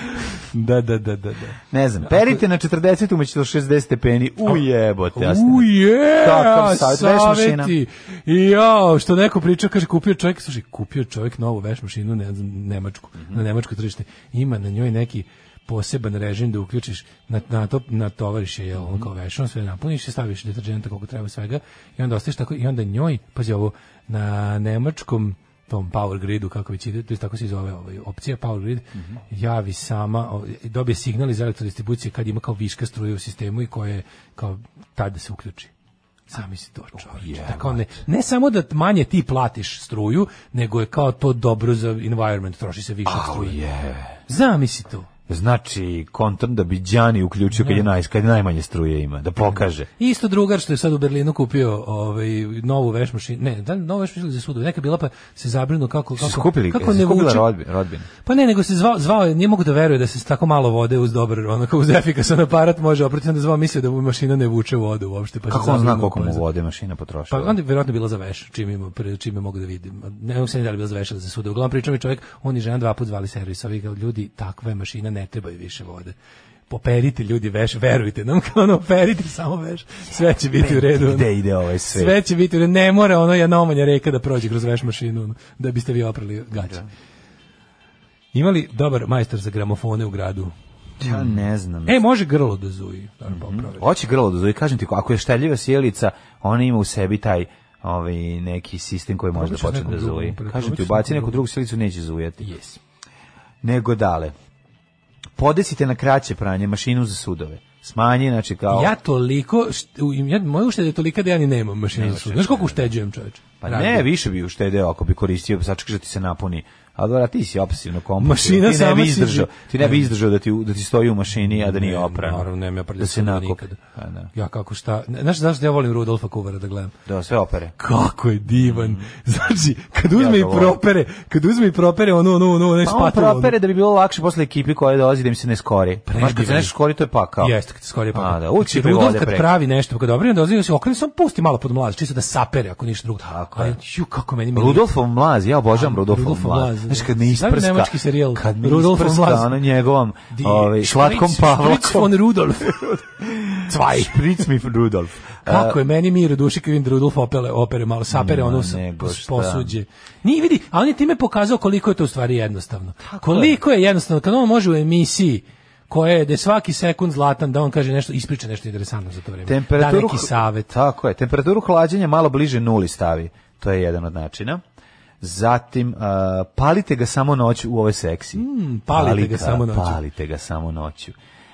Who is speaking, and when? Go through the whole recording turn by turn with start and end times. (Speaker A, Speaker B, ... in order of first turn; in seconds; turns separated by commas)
Speaker A: 0.2-2.4, Speaker B: 1.7-7.7, Speaker A: 5.1-35.7, Speaker B: 18.8-19.1, Speaker A: 36.3-43.6, Speaker B: 37.1-37.9, Speaker B: 43.0-44.2, Speaker A: 44.3-45.1, Speaker B: 45.3-49.9, Speaker A: 47.5-47.9, Speaker A: 49.5-57.5, Speaker B: 56.2-58.1, Speaker A: 58.2-66.4, Speaker B: 65.5-67.5, Speaker A: 67.3-76.1, Speaker A: 76.7-81.3, Speaker B: 80.6-82.2, Speaker A: 81.8-86.8, Speaker B: 86.6-86.9, Speaker A: 88.3-91.3, Speaker B: 91.0-92.0, Speaker A: 91.8-93.8, Speaker B: 93.3-102.5, Speaker A: 99.3-101.4, Speaker A: 102.4-102.8, Speaker B: 103.6-104.3, Speaker B: 105.4-108.9, Speaker A: 108.7-114.1, Speaker B: 111.9-112.9, Speaker B: 113.6-124.3, Speaker A: 118.2-120.1, Speaker A: 121.5-123.8, Speaker A: 124.3-126.9, Speaker B: 127.0-127.7, Speaker A: 127.8-133.5, Speaker B: 128.6-129.1, Speaker B: 130.1-130.8, Speaker B: 132.8-137.5, Speaker A: 136.1-136.7, Speaker A: 137.4-144.9, Speaker B: 138.1-139.5, Speaker B: 143.2-143.8, Speaker B: 144.5-155.8, Speaker A: 145.7-149.6, Speaker A: 150.3-153.0, Speaker A: 153.6-154.4, Speaker A: 155.4-170.7, Speaker B: 158.1-159.7, Speaker B: 163.0-163.6, Speaker B: 169.4-174.6, Speaker B: 175.2-181.2, Speaker A: 178.3-180.0